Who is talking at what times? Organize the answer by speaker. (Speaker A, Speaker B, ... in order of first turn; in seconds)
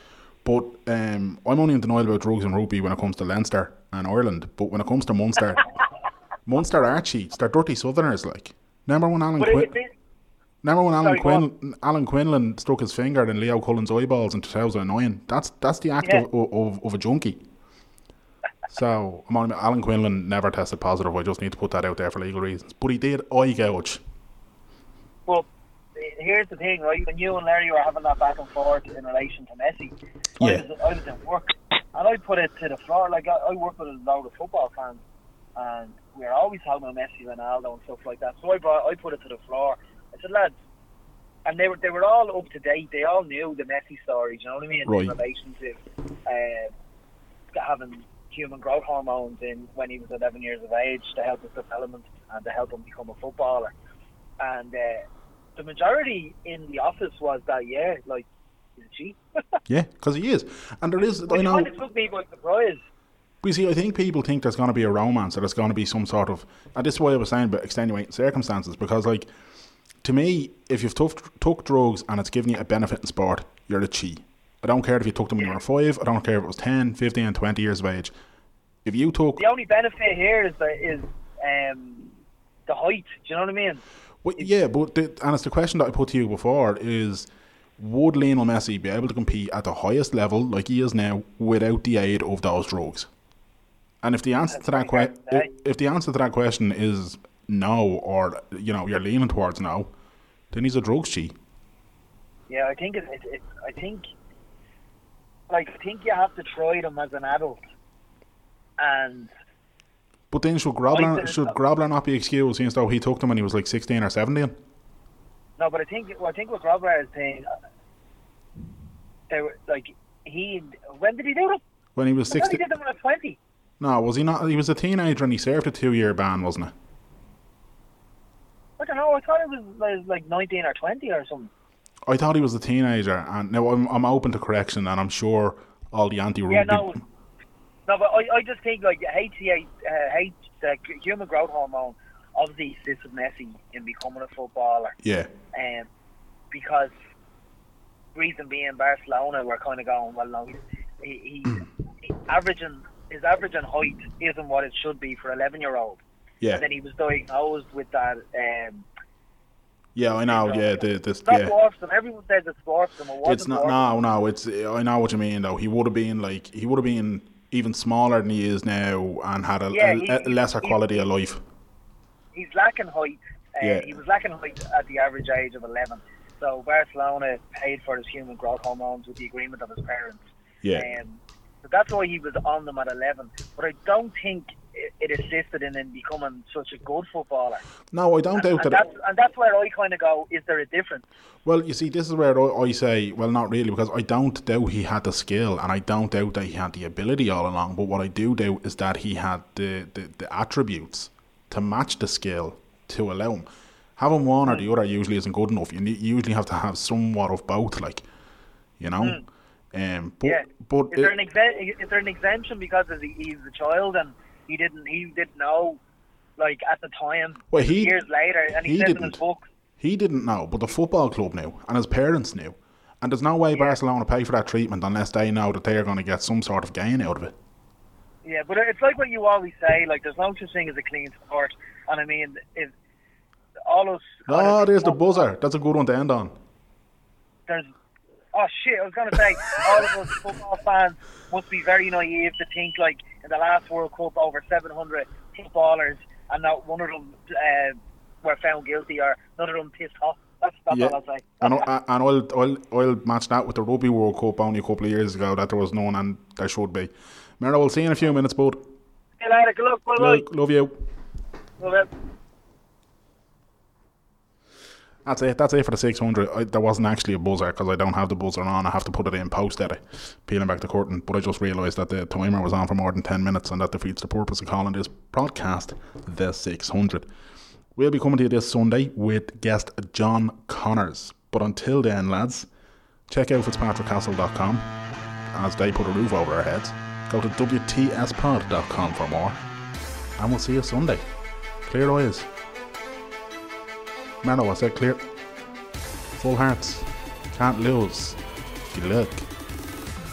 Speaker A: 0.4-5.6, 6.5-9.7, 10.6-17.4, 18.7-24.0, 44.9-45.1, 59.7-61.7, 63.4-69.3, 70.0-78.1, 78.8-79.4, 84.2-93.1, 94.0-99.9, 100.5-101.3, 110.3-114.5, 122.0-122.6, 123.8-126.7, 132.1-136.9, 145.0-145.3, 159.9-161.5, 163.2-171.4, 173.6-173.9, 187.9-188.8, 191.4-208.0, 208.8-209.2, 209.7-211.1, 217.5-217.9, 218.6-219.2, 219.8-227.3, 234.3-236.3, 250.7-258.6, 259.9-260.7, 265.1-277.1, 277.8-282.5, 283.1-284.7, 285.3-289.4, 290.2-291.0, 291.6-292.3, 294.2-295.0, 296.1-299.3
Speaker B: 9.4-9.9, 11.0-11.4, 25.3-35.0, 35.6-40.5, 41.4-46.7, 47.5-53.7, 54.4-55.0, 55.5-59.6, 61.2-62.8, 79.4-82.1, 82.7-83.8, 94.5-95.5, 102.5-104.0, 105.5-107.6, 108.8-109.3, 110.9-111.5, 115.6-117.5, 119.3-121.6, 122.3-123.4, 128.8-131.5, 136.5-137.0, 137.9-144.9, 145.5-145.9, 146.5-146.9, 148.1-156.0, 156.5-158.8, 160.2-163.8, 169.7-171.1, 172.3-187.6, 188.3-191.0, 204.4-204.7, 208.9-209.2, 210.2-215.8, 216.4-219.5, 228.2-232.7, 233.7-235.3, 238.3-251.7, 259.2-260.2, 261.6-261.9